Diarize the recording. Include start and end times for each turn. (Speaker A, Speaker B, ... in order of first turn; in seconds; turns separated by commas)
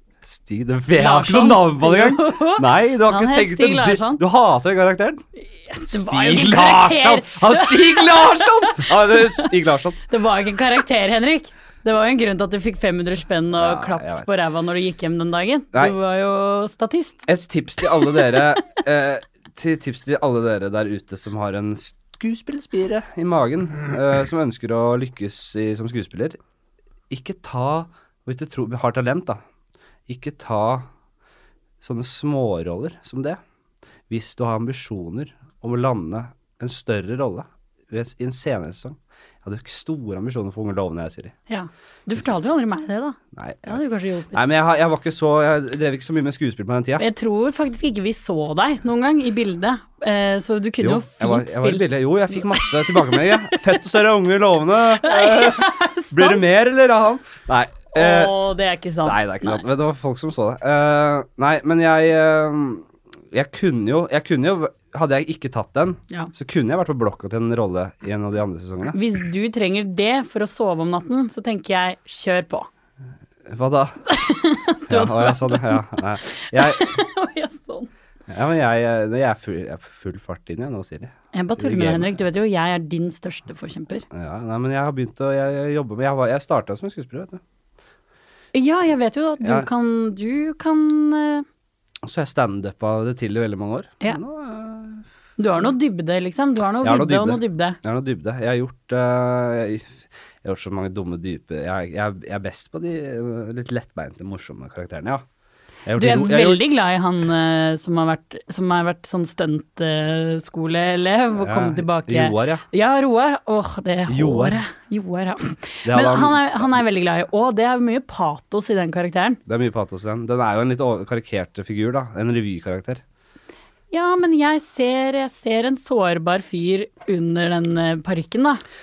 Speaker A: 0.2-5.2, Speaker B: 0.9-4.2, Speaker B: 5.7-9.5, Speaker A: 5.9-10.0, Speaker B: 10.1-17.2, Speaker A: 13.6-14.3, Speaker A: 17.3-26.4, Speaker A: 27.1-29.4, Speaker A: 30.1-30.9, Speaker A: 31.8-33.4, Speaker A: 34.1-41.3, Speaker B: 41.5-44.4, Speaker A: 43.3-43.8, Speaker A: 44.3-47.0, Speaker B: 47.0-53.8, Speaker A: 50.8-58.3, Speaker B: 55.0-56.4, Speaker B: 57.9-59.6, Speaker A: 59.0-69.0, Speaker B: 68.9-72.7, Speaker A: 73.5-74.0, Speaker B: 74.1-77.9, Speaker A: 74.9-77.0, Speaker A: 78.3-82.1, Speaker B: 81.3-84.0, Speaker A: 84.1-87.4, Speaker B: 88.5-91.4, Speaker A: 89.4-89.7, Speaker A: 92.0-95.7, Speaker B: 95.4-97.8, Speaker A: 96.8-99.9, Speaker A: 100.4-105.2, Speaker A: 105.8-106.6, Speaker B: 106.0-119.4, Speaker A: 111.4-112.6, Speaker A: 114.1-114.6, Speaker A: 115.8-116.8, Speaker A: 119.5-123.0, Speaker B: 123.9-128.6